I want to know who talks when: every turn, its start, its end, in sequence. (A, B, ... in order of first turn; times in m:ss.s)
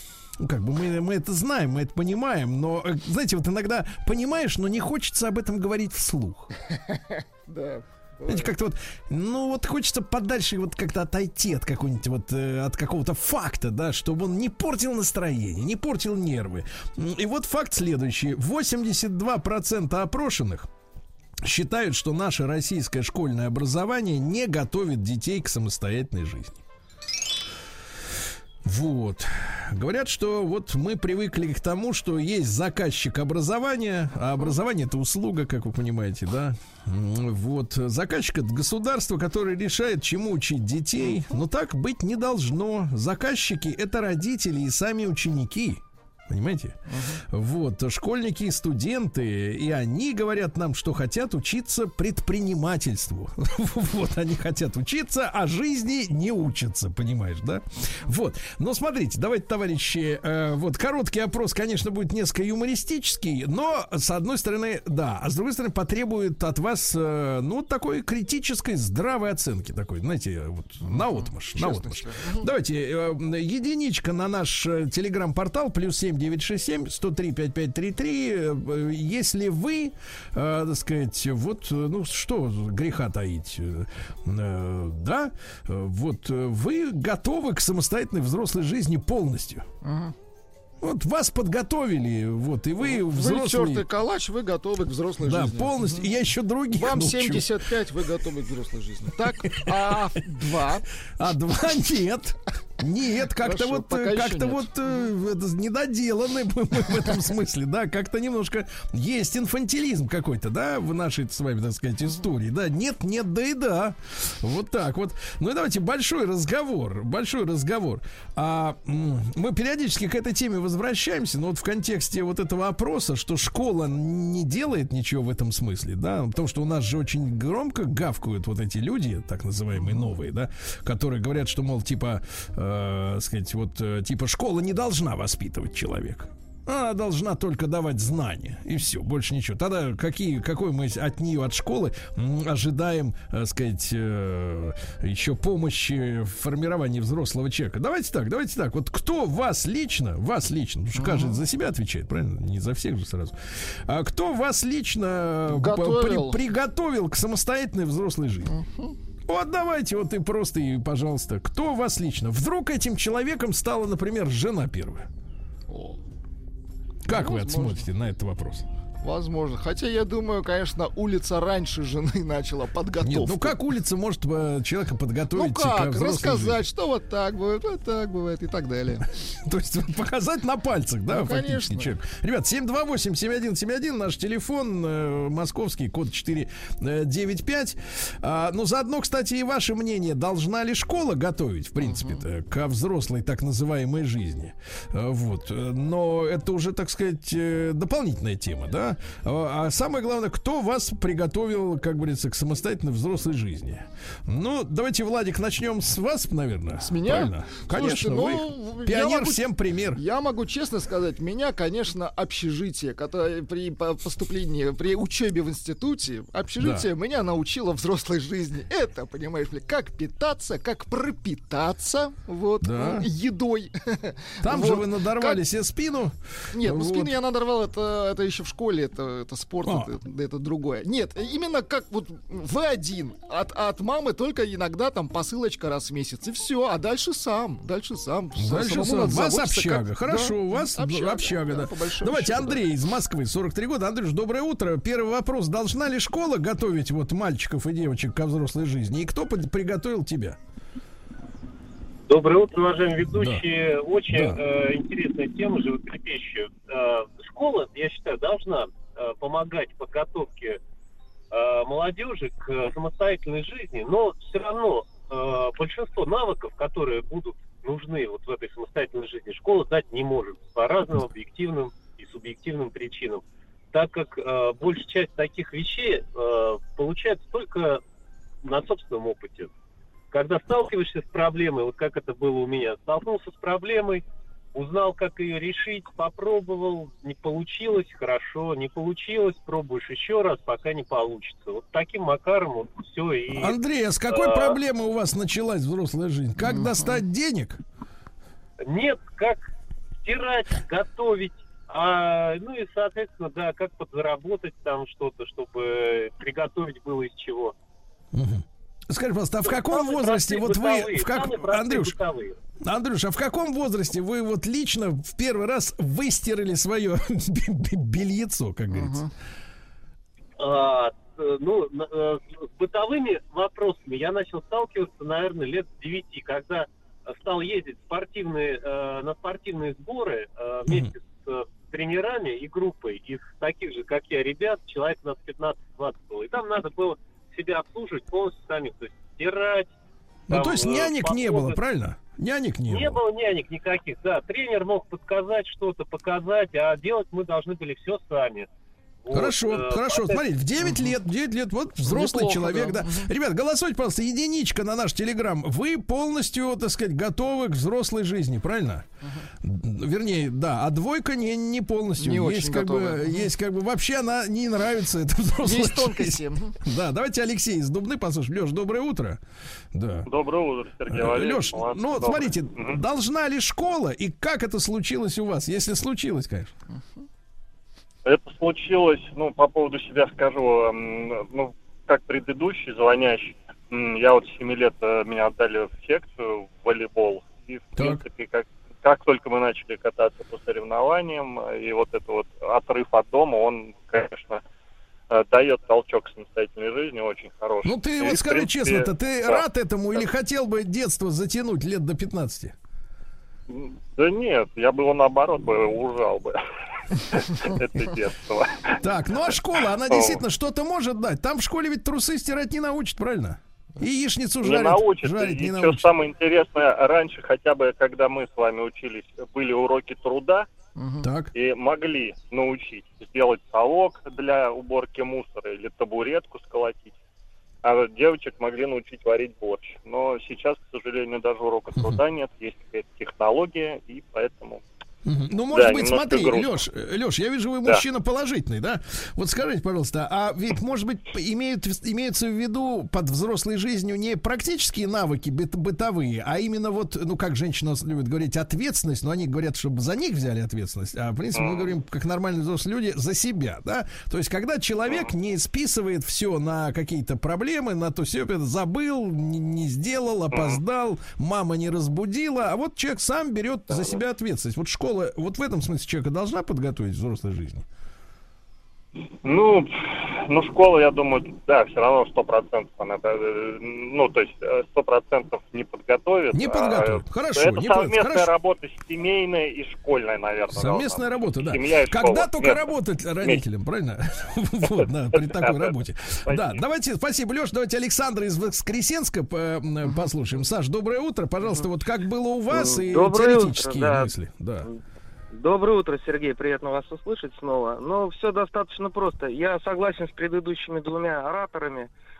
0:00.4-0:06.5 A
0:06.7-0:08.5 B
0:08.3-0:20.7 A
0:21.4-0:26.6 A
0:28.6-1:29.7 A
0:41.0-0:41.3 B
0:46.9-0:47.2 B
0:57.8-0:58.1 B
1:10.8-1:12.5 B
1:29.8-1:30.2 B
1:30.8-1:33.9 A
1:32.8-1:36.1 B
1:35.2-1:37.5 A
1:36.7-1:40.9 B
1:39.4-1:40.0 A
1:41.1-2:38.5 A
1:43.4-1:45.1 B
2:09.8-2:10.1 B
2:31.0-2:31.4 B
2:35.5-2:36.4 B
2:38.4-2:39.0 B
2:39.3-2:45.1 A
2:45.7-2:46.0 B
2:47.0-2:48.7 A
2:47.1-2:47.9 B
2:49.0-2:53.6 B
2:53.0-2:56.6 A
2:55.3-2:59.1 B
2:59.4-3:30.0 A
3:01.1-3:01.9 B
3:11.8-3:12.2 B
3:26.8-3:45.4 B
3:36.6-3:36.9 A
3:42.6-3:43.1 A
3:44.4-3:47.2 A
3:46.5-4:02.6 B
3:49.6-3:49.9 A
3:58.4-4:10.4 A
4:12.1-4:20.6 C
4:13.1-4:13.4 A
4:14.1-4:14.4 A
4:21.3-4:37.8 C
4:38.4-4:39.5 C
4:40.1-4:44.0 C
4:44.5-4:53.6 C
4:53.3-4:57.6 A
4:54.1-4:54.6 C
4:56.4-4:57.0 B
4:58.6-4:59.4 C
5:00.0-5:07.6 C
5:08.1-5:12.0 A
5:09.4-5:12.4 C
5:12.6-5:19.0 A
5:18.7-5:19.1 B
5:20.4-5:39.7 C
5:30.7-5:30.9 A
5:40.3-5:41.6 C
5:40.3-5:43.0 A
5:42.7-5:48.5 C
5:49.0-5:50.2 C
5:49.1-5:58.9 A
5:50.6-5:50.9 B
5:51.8-5:53.1 B
5:59.0-5:59.3 B
5:59.4-6:09.2 A
6:02.0-6:03.3 B
6:05.4-6:06.6 B
6:09.7-6:10.1 A
6:10.1-6:12.8 D
6:10.9-6:16.5 A
6:18.1-6:34.4 D
6:27.8-6:28.0 A
6:35.1-6:39.4 D
6:37.6-6:42.5 A
6:43.5-6:46.4 D
6:47.1-6:48.8 D
6:48.8-6:55.9 A
6:49.9-6:50.2 D
6:54.4-7:00.5 D
7:00.8-7:01.0 B
7:01.0-7:01.4 A
7:01.3-7:06.9 D
7:07.6-7:14.6 D
7:15.0-7:47.6 A
7:15.5-7:16.6 D
7:31.4-7:31.7 D
7:40.3-7:40.6 D
7:49.2-7:49.7 D
7:50.2-8:03.4 D
7:56.3-7:58.3 A
8:00.6-8:14.7 A
8:05.1-8:05.7 D
8:06.3-8:06.6 D
8:12.5-8:14.1 E
8:15.3-8:21.9 E